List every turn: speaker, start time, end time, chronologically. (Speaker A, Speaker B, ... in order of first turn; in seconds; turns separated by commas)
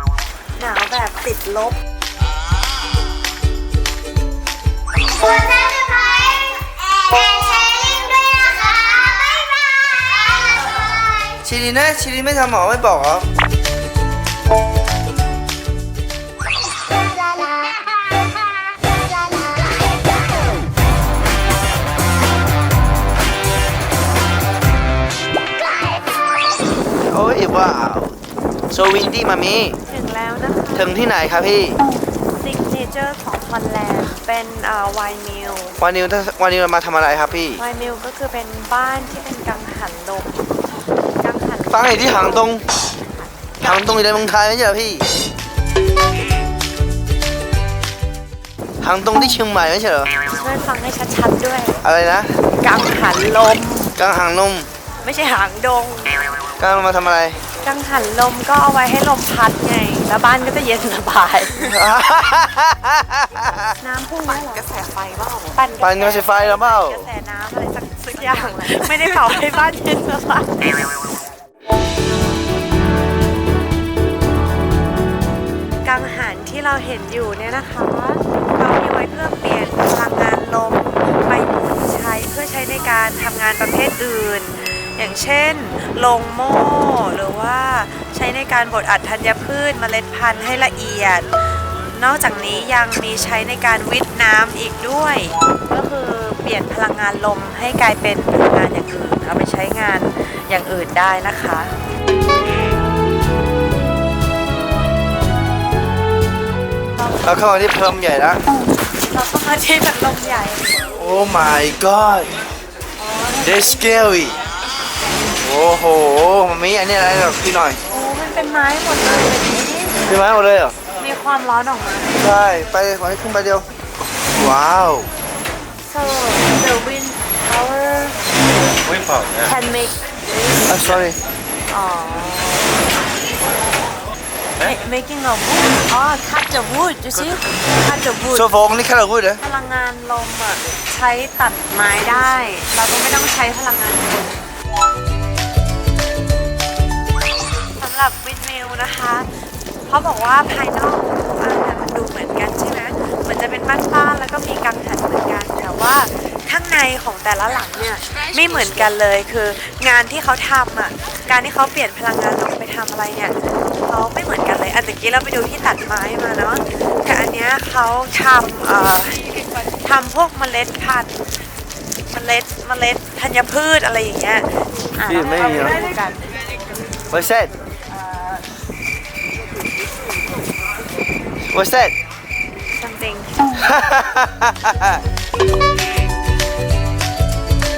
Speaker A: 0.6-1.8, Speaker B: 5.8-6.4, Speaker B: 7.2-10.0, Speaker C: 11.4-13.3, Speaker C: 27.1-28.2, Speaker C: 28.7-29.8, Speaker A: 29.9-30.9, Speaker C: 30.8-31.8, Speaker A: 32.3-35.8, Speaker C: 35.8-37.6, Speaker A: 37.6-40.5, Speaker A: 41.2-42.3, Speaker C: 41.7-42.6, Speaker C: 43.6-45.0, Speaker C: 48.8-50.1, Speaker A: 50.3-51.8, Speaker C: 51.8-52.3, Speaker A: 52.6-54.0, Speaker C: 54.0-54.7, Speaker A: 55.0-56.2, Speaker C: 56.6-57.4, Speaker A: 57.6-61.7, Speaker C: 61.6-63.8, Speaker A: 63.8-64.7, Speaker B: 64.7-65.5, Speaker A: 65.5-70.8, Speaker C: 65.8-67.1, Speaker A: 75.8-101.7, Speaker A: 107.0-107.4, Speaker C: 107.2-108.4, Speaker A: 109.0-110.9, Speaker C: 111.0-112.3, Speaker A: 113.0-114.0, Speaker C: 113.4-114.4, Speaker C: 115.4-117.8, Speaker A: 117.9-120.0, Speaker C: 120.1-120.8, Speaker A: 121.0-122.2, Speaker C: 122.2-123.7, Speaker C: 124.3-125.1, Speaker A: 125.8-128.2, Speaker C: 128.8-129.5, Speaker A: 129.4-130.7, Speaker C: 130.7-131.2, Speaker A: 131.7-132.8, Speaker A: 134.6-138.5, Speaker C: 138.3-139.4, Speaker A: 139.4-144.4, Speaker A: 147.8-171.2, Speaker A: 172.1-176.3, Speaker C: 175.1-175.8, Speaker C: 177.1-177.5, Speaker A: 177.9-178.4, Speaker C: 181.5-181.9, Speaker A: 182.7-183.5, Speaker C: 183.6-185.0